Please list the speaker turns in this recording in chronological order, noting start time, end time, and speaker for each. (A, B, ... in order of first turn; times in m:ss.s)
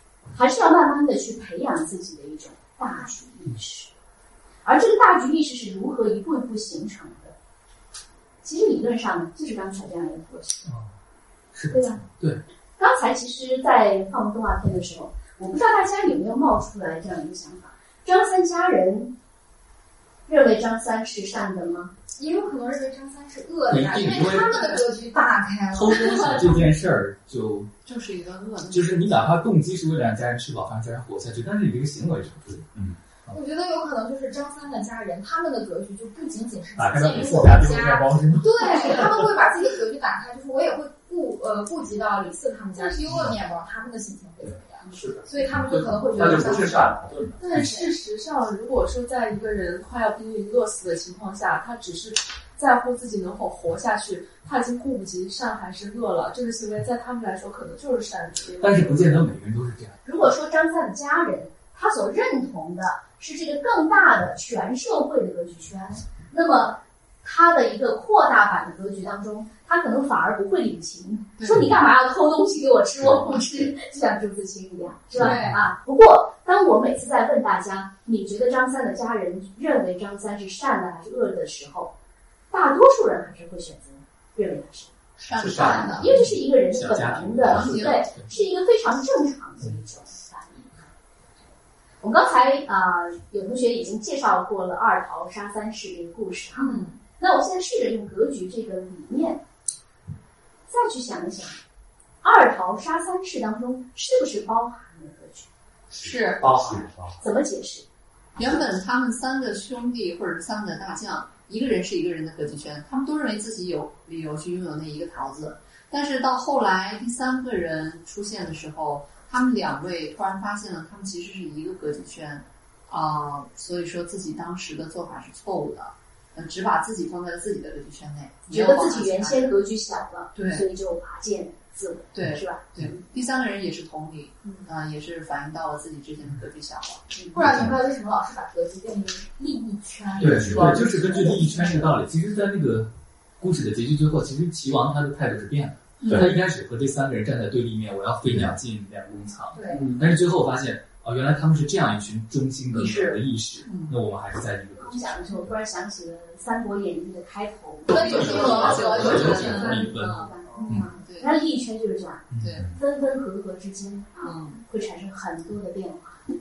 0:00.3-0:03.9 A
0:04.6-0:07.4 A
0:08.4-0:10.7 A
0:10.6-0:10.9 B
0:11.5-0:12.4 B
0:11.7-0:12.0 A
0:12.8-0:19.1 A
0:20.3-0:21.9 A
0:22.2-0:26.7 C
0:23.7-0:24.8 B
0:25.7-0:27.7 B
0:27.8-0:29.2 D
0:28.7-0:33.3 B
0:33.3-0:48.0 C
0:36.8-0:39.2 B
0:44.9-0:45.3 E
0:46.1-0:47.1 E
0:47.4-0:59.2 F
0:58.6-1:00.0 B
1:00.0-1:21.9 A
1:11.4-1:11.7 D
1:15.2-1:15.6 C
1:22.5-1:24.9 A
1:25.2-1:26.3 D
1:25.3-1:26.0 E
1:25.7-1:30.9 A
1:25.9-1:28.4 B
1:27.4-1:28.1 D
1:32.0-1:39.4 A
1:36.6-1:37.0 C
1:40.7-1:41.6 A
1:42.2-1:45.5 A
1:45.9-1:46.6 D
1:46.4-1:47.1 E
1:47.2-1:47.9 A
1:48.4-2:09.5 D
2:08.5-2:13.0 A
2:10.3-2:10.7 D
2:12.1-2:17.1 D
2:17.3-2:21.9 C
2:17.3-2:17.8 B
2:20.2-2:35.2 B
2:29.5-2:30.0 C
2:32.7-2:34.0 D
2:34.8-2:46.2 A
2:37.9-2:40.0 C
2:38.0-2:39.8 D
2:38.1-2:40.8 B
2:40.5-2:40.8 E
2:41.0-2:41.3 D
2:42.3-2:42.6 B
2:42.4-2:42.7 D
2:44.2-2:44.6 D